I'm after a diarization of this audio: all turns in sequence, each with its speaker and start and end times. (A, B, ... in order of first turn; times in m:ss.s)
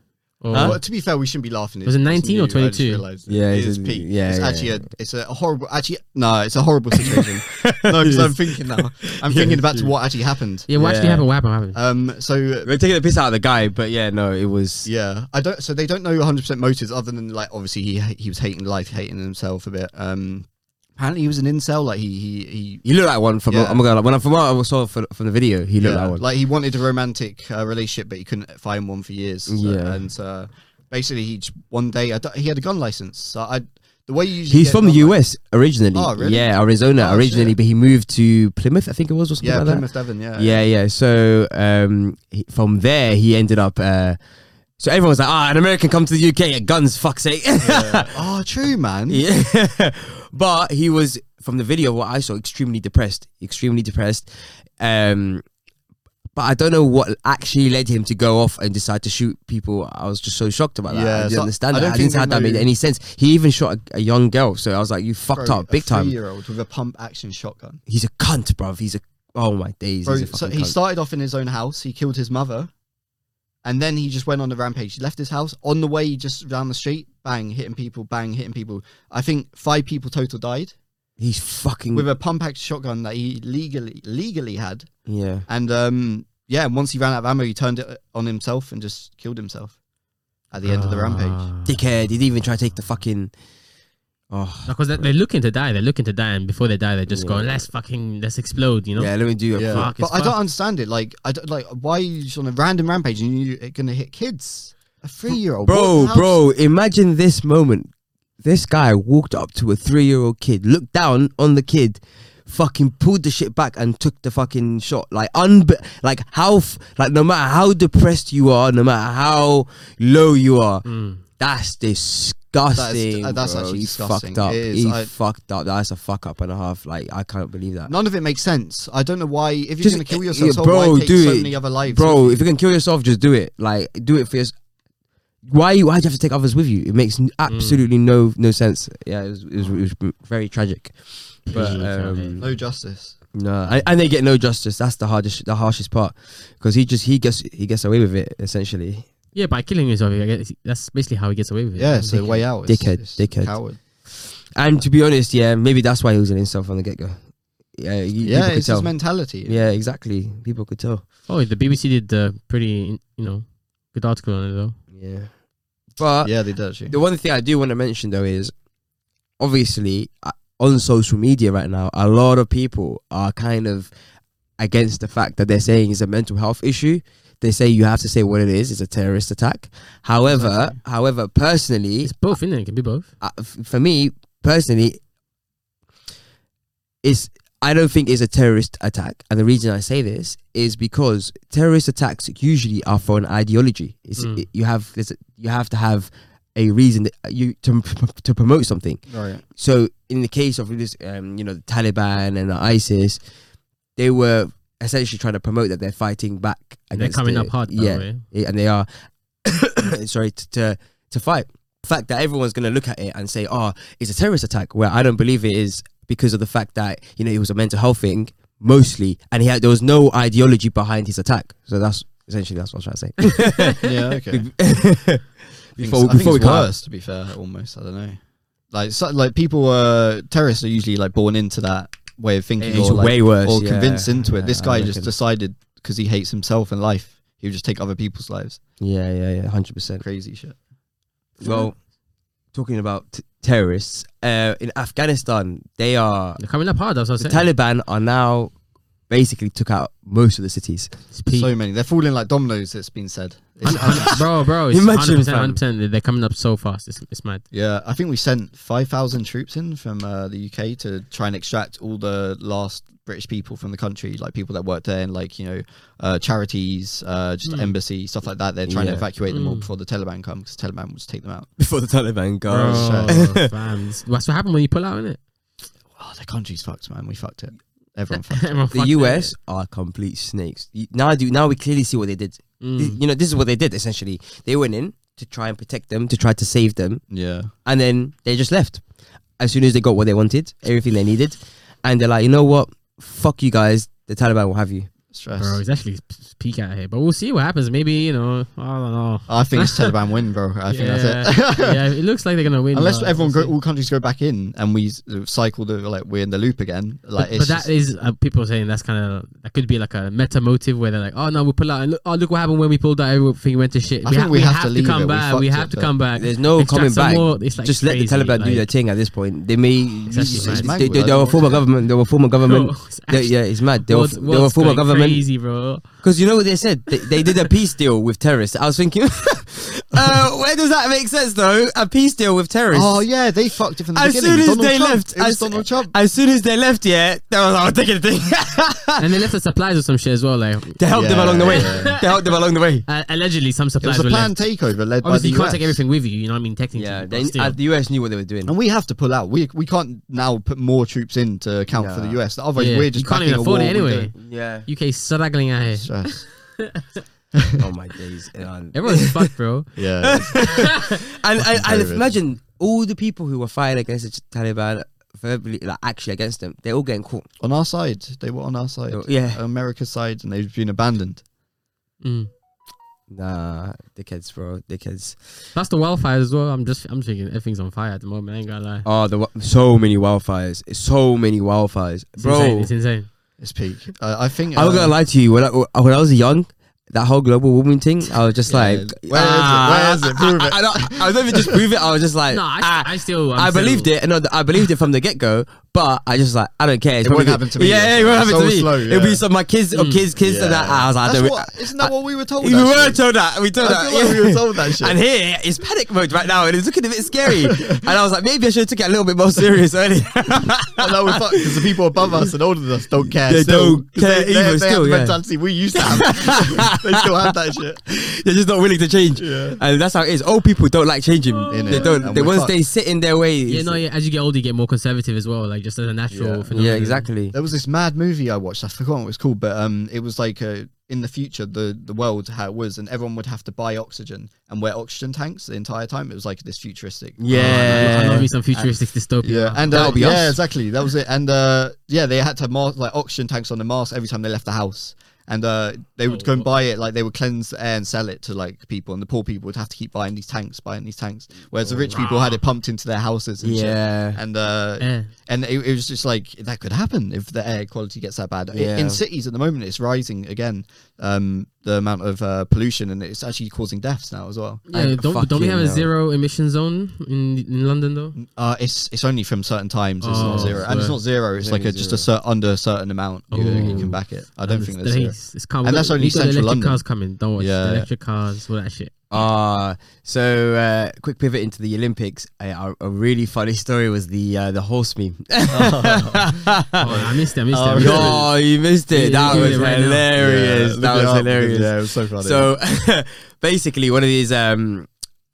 0:00.4-0:00.8 A
0:00.5-0:00.8 B
0:00.5-0:10.7 C
0:01.8-0:03.0 A
0:03.3-0:04.8 B
0:07.0-0:09.9 B
0:10.7-0:11.8 A
0:10.7-0:11.2 B
0:11.7-0:12.7 C
0:12.6-0:14.9 B
0:14.9-0:22.8 C
0:22.8-0:26.2 B
0:23.5-0:23.8 C
0:25.8-0:35.2 C
0:29.5-0:30.0 B
0:34.5-0:44.2 B
0:35.9-0:37.6 C
0:39.4-0:40.6 C
0:44.8-0:48.2 B
0:47.6-0:49.2 C
0:49.1-0:55.4 B
0:56.4-1:06.2 B
1:00.9-1:02.7 C
1:05.3-1:07.8 C
1:07.9-1:10.8 B
1:10.0-1:12.7 C
1:13.6-1:20.7 C
1:21.2-1:22.1 B
1:21.9-1:24.9 C
1:25.1-1:25.4 B
1:25.5-1:29.8 C
1:30.5-1:31.5 C
1:30.6-1:31.8 A
1:31.7-1:33.3 B
1:34.3-1:35.1 B
1:34.7-1:39.1 A
1:37.1-1:37.7 B
1:39.0-1:39.9 B
1:39.5-1:46.4 C
1:39.7-1:40.4 A
1:45.6-1:47.9 B
1:48.4-2:00.8 B
2:00.8-2:01.2 A
2:01.4-2:07.9 B
2:02.7-2:05.1 C
2:07.9-2:12.5 C
2:09.8-2:14.6 B
2:15.4-2:22.5 B
2:17.5-2:17.8 A
2:21.5-2:22.4 A
2:22.4-2:23.2 C
2:23.3-2:29.1 B
2:29.4-2:32.4 A
2:31.8-2:33.8 C
2:32.7-2:37.2 B
2:37.7-2:38.9 B
2:38.2-2:39.6 C
2:39.4-2:41.0 B
2:41.3-2:44.8 A
2:44.9-2:45.3 B
2:46.0-2:46.3 B
2:46.2-2:47.0 C
2:46.9-2:48.5 B
2:49.4-2:53.9 B
2:54.6-3:02.1 B
3:00.2-3:00.8 C
3:02.0-3:03.1 A
3:03.2-3:05.0 B
3:07.0-3:19.0 B
3:14.2-3:14.5 A
3:19.1-3:19.4 C
3:19.6-3:23.2 B
3:24.0-3:28.9 B
3:27.0-3:28.2 A
3:29.4-3:46.7 B
3:43.8-3:44.5 C
3:45.8-3:48.2 C
3:48.7-3:58.6 C
3:52.6-3:55.1 B
3:58.8-4:00.0 B
4:00.0-4:00.6 C
4:01.4-4:01.8 B
4:02.5-4:06.4 B
4:06.4-4:07.5 A
4:07.2-4:08.5 B
4:09.1-4:10.9 B
4:11.1-4:11.5 A
4:11.3-4:14.2 C
4:13.6-4:17.4 A
4:13.7-4:15.6 B
4:17.5-4:31.5 C
4:27.4-4:27.7 A
4:28.7-4:29.0 B
4:29.3-4:29.7 A
4:31.6-4:33.5 B
4:32.5-4:35.2 A
4:32.7-4:33.3 C
4:36.0-4:38.6 C
4:38.2-4:39.3 A
4:38.7-4:47.0 B
4:42.6-4:43.0 A
4:47.1-4:47.5 C
4:47.6-4:48.8 B
4:49.4-4:54.9 B
4:55.1-4:55.6 C
4:55.4-4:59.9 A
4:59.3-5:01.8 C
5:00.7-5:03.6 A
5:02.7-5:07.7 C
5:07.2-5:18.7 A
5:14.0-5:15.9 C
5:16.2-5:25.2 B
5:20.1-5:21.6 C
5:20.1-5:20.8 A
5:22.4-5:25.9 A
5:26.0-5:33.0 B
5:32.7-5:35.9 C
5:33.9-5:39.0 B
5:39.0-5:40.8 A
5:40.8-5:42.8 B
5:40.9-5:42.0 C
5:41.5-5:42.1 A
5:42.9-5:44.4 A
5:43.8-5:45.8 C
5:45.0-5:47.6 A
5:46.7-5:48.5 B
5:48.5-5:54.1 C
5:51.7-5:52.2 B
5:52.6-5:57.0 A
5:54.2-5:54.7 B
5:55.8-5:56.3 C
5:57.6-5:59.3 B
5:58.7-5:59.7 A
5:59.8-6:02.1 C
6:00.0-6:07.3 B
6:00.3-6:00.6 A
6:07.4-6:11.2 C
6:08.9-6:09.4 B
6:12.0-6:12.3 A
6:13.1-6:15.2 B
6:15.6-6:18.9 A
6:18.8-6:22.7 B
6:22.2-6:23.1 A
6:23.4-6:25.0 C
6:24.5-6:52.3 B
6:28.5-6:31.6 C
6:32.3-6:33.9 A
6:37.0-6:39.2 C
6:39.7-6:40.0 A
6:40.2-6:43.0 C
6:43.6-6:45.0 C
6:47.4-6:47.8 C
6:50.8-6:57.8 C
6:53.0-6:55.2 B
6:55.8-6:57.3 B
6:57.9-7:03.8 B
6:59.2-6:59.6 C
7:01.3-7:02.1 A
7:01.5-7:02.5 C
7:03.5-7:07.1 A
7:06.1-7:06.5 C
7:06.5-7:07.4 B
7:07.3-7:44.6 C
7:17.2-7:18.3 B
7:17.3-7:20.3 A
7:19.7-7:20.4 B
7:26.1-7:26.5 A
7:31.6-7:32.0 B
7:31.9-7:32.4 A
7:33.4-7:34.2 B
7:34.8-7:35.1 A
7:38.5-7:39.0 B
7:44.7-7:48.2 A
7:44.7-7:45.9 B
7:48.2-7:56.8 C
7:50.0-7:51.0 A
7:50.2-7:50.7 B
7:51.4-7:52.1 B
7:53.3-7:58.9 A
7:53.5-7:54.0 B
7:57.4-7:57.9 C
7:59.1-8:07.0 B
8:05.5-8:08.3 C
8:06.8-8:08.2 A
8:07.8-8:14.9 B
8:08.9-8:10.1 A
8:09.3-8:12.5 C